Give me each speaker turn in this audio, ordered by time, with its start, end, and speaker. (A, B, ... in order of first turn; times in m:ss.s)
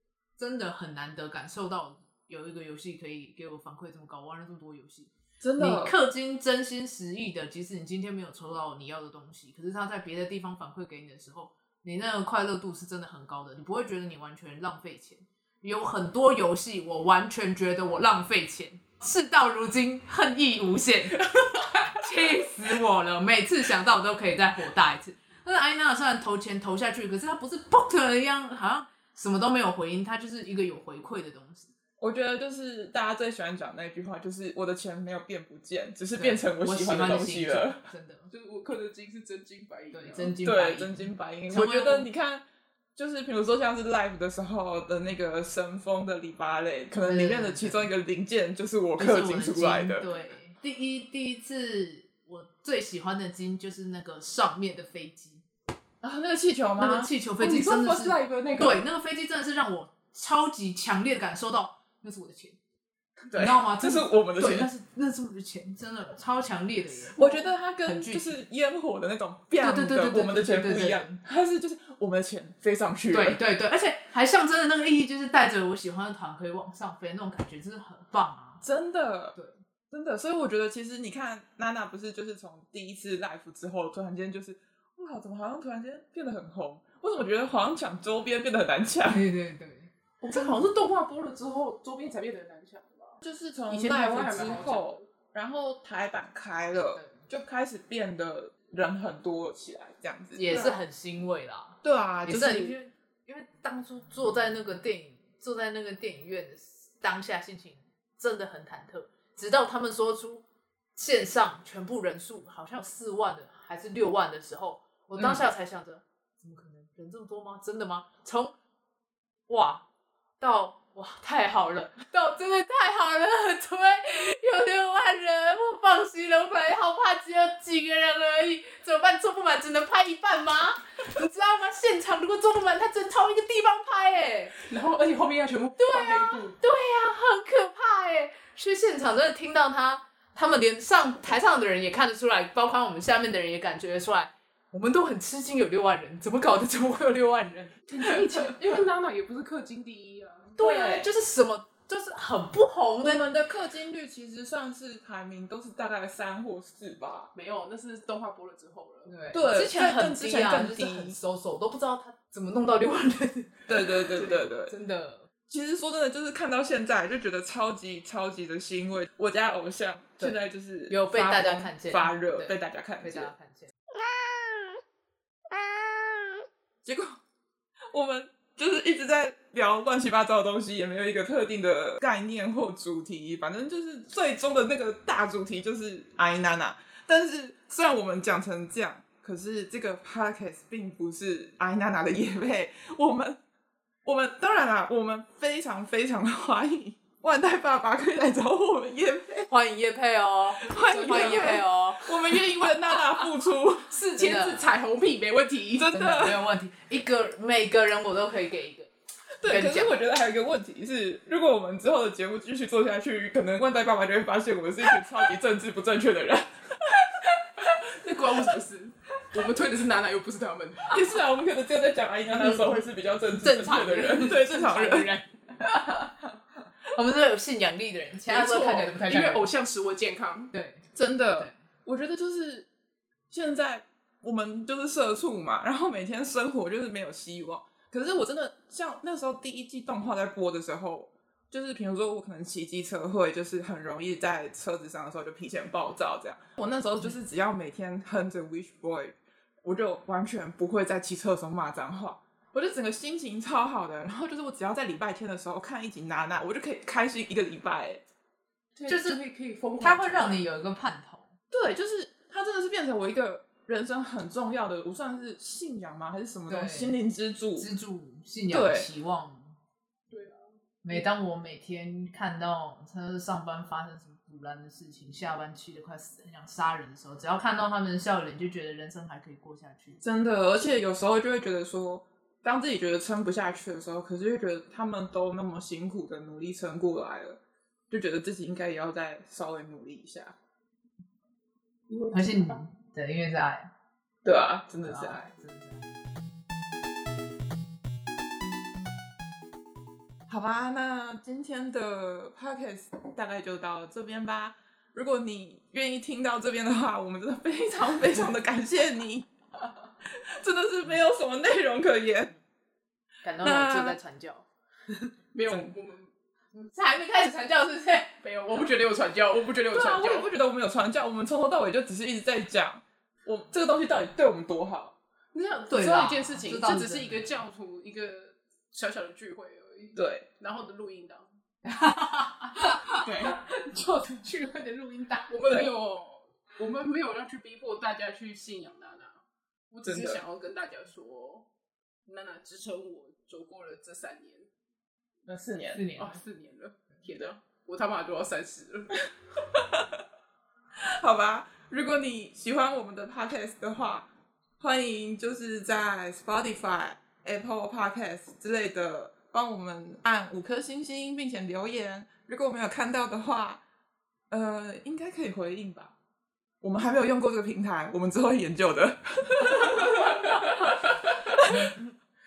0:00.4-0:31.7 A
0:05.4-0:06.0 B
0:32.0-0:37.8 B
0:36.2-0:38.3 A
0:38.3-0:40.4 C
0:39.9-0:42.1 A
0:40.4-0:42.4 B
0:43.0-0:50.1 B
0:46.9-0:47.9 A
0:49.0-0:55.4 A
0:56.0-0:57.1 B
0:56.8-1:02.6 A
0:57.4-0:58.8 C
1:03.3-1:04.7 B
1:03.3-1:08.4 A
1:07.2-1:13.4 B
1:09.6-1:11.2 A
1:13.1-1:18.6 A
1:18.6-1:19.4 B
1:19.9-1:29.2 B
1:29.1-1:30.6 A
1:30.2-1:35.0 C
1:33.2-1:40.5 B
1:36.9-1:37.2 A
1:40.3-1:50.4 A
1:40.5-1:40.8 C
1:41.8-1:42.8 B
1:50.9-1:58.5 A
1:55.2-1:55.4 B
1:59.5-1:59.8 A
2:00.4-2:14.6 A
2:14.6-2:16.6 C
2:15.8-2:28.1 A
2:27.9-2:30.6 C
2:30.6-2:33.2 A
2:30.6-2:31.1 B
2:33.0-2:37.3 B
2:37.3-2:39.1 C
2:39.1-2:45.3 A
2:39.3-2:41.2 B
2:43.7-2:44.7 B
2:45.5-2:53.3 B
2:50.9-2:53.7 A
2:56.8-2:57.2 B
2:57.9-3:13.4 B
3:14.0-3:19.5 B
3:19.5-3:22.1 A
3:20.6-3:23.9 B
3:20.9-3:21.6 C
3:23.9-3:25.9 C
3:24.2-3:24.7 A
3:25.8-3:26.4 B
3:25.9-3:28.9 A
3:29.4-3:37.8 B
3:29.4-3:30.0 A
3:37.8-3:41.0 C
3:40.9-3:45.2 B
3:42.4-3:42.8 A
3:43.4-3:45.3 A
3:46.9-3:49.4 A
3:48.2-3:50.5 C
3:50.5-3:50.8 A
3:50.9-3:52.7 B
3:53.3-4:18.0 B
4:18.8-4:20.4 C
4:18.9-4:19.2 A
4:19.8-4:21.3 A
4:21.5-4:27.7 B
4:26.5-4:27.0 A
4:27.6-4:29.6 A
4:28.5-4:28.9 B
4:30.1-4:30.4 C
4:30.8-4:40.0 A
4:40.0-4:50.4 B
4:51.9-4:52.6 C
4:52.1-4:53.7 A
4:54.2-4:55.3 B
4:54.8-4:55.8 A
5:00.3-5:09.3 B
5:10.0-5:12.3 B
5:13.2-5:15.1 A
5:13.4-5:14.0 B
5:15.3-5:16.1 C
5:16.6-5:18.2 A
5:18.2-5:20.3 C
5:19.7-5:24.9 B
5:25.3-5:31.3 C
5:25.7-5:27.3 A
5:30.0-5:30.3 B
5:31.6-5:34.3 A
5:33.0-5:33.4 B
5:34.1-5:39.2 C
5:39.7-5:41.5 C
5:39.8-5:40.2 B
5:42.0-5:44.5 C
5:45.3-5:45.8 B
5:45.7-5:46.2 A
5:46.0-5:49.0 C
5:49.3-5:50.0 B
5:50.8-5:54.1 B
5:54.6-6:03.6 B
6:04.3-6:05.9 B
6:06.6-6:11.8 B